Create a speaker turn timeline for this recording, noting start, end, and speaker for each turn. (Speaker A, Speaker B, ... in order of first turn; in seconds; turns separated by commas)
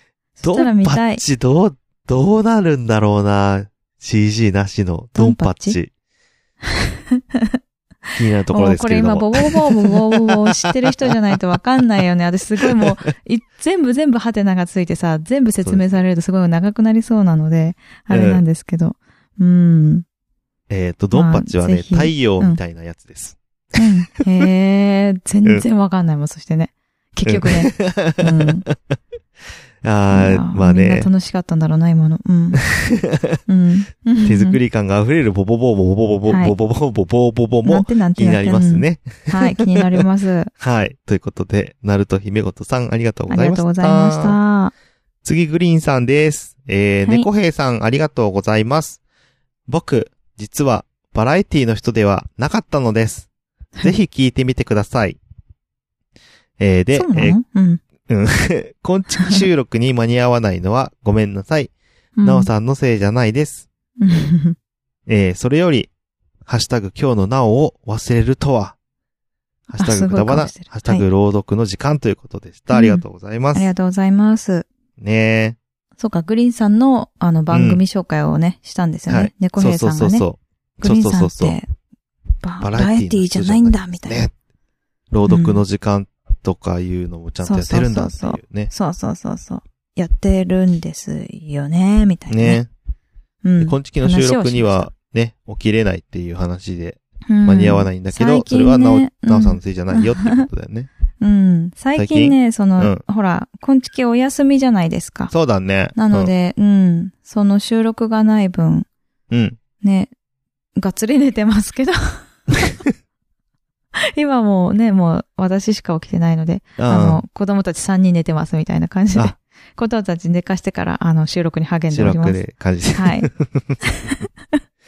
Speaker A: 0.4-1.2, Speaker B: 0.4-5.9, Speaker A: 5.2-5.8, Speaker B: 8.2-11.1, Speaker A: 8.5-20.1, Speaker B: 12.6-12.9, Speaker B: 15.6-16.0, Speaker B: 18.1-18.4, Speaker B: 20.7-23.8, Speaker A: 21.1-22.6, Speaker A: 23.8-28.6, Speaker B: 27.2-28.9, Speaker B: 29.8-31.1, Speaker A: 30.1-32.6, Speaker B: 32.8-33.4, Speaker A: 33.5-34.6, Speaker B: 34.2-40.0, Speaker A: 36.3-36.5, Speaker A: 37.6-40.5, Speaker B: 40.6-44.4, Speaker A: 43.3-44.7, Speaker B: 45.2-49.0, Speaker B: 49.7-53.3, Speaker B: 53.8-55.2, Speaker B: 56.6-57.4, Speaker A: 56.9-57.8, Speaker B: 58.1-61.7, Speaker A: 62.2-62.5, Speaker B: 62.2-63.7, Speaker A: 64.0-64.6, Speaker B: 65.1-65.9, Speaker B: 66.5-68.8, Speaker B: 69.7-73.7, Speaker A: 69.8-71.1, Speaker A: 72.7-74.7, Speaker B: 75.0-75.6, Speaker A: 76.0-80.3, Speaker B: 77.5-77.8, Speaker B: 79.1-81.6, Speaker A: 80.8-81.7, Speaker A: 82.4-84.3, Speaker B: 82.6-84.3, Speaker B: 85.1-88.7, Speaker A: 85.3-85.6, Speaker A: 87.4-92.6, Speaker B: 92.3-92.7, Speaker A: 93.4-94.9, Speaker B: 93.6-100.9, Speaker A: 97.3-100.5, Speaker A: 101.2-105.3, Speaker B: 102.0-103.0, Speaker B: 105.3-106.3, Speaker A: 106.0-108.9, Speaker B: 109.3-109.6, Speaker A: 109.8-110.1, Speaker A: 110.8-112.0, Speaker A: 114.2-122.4, Speaker B: 116.8-117.2, Speaker B: 121.9-123.8, Speaker A: 123.0-123.3, Speaker A: 123.8-124.1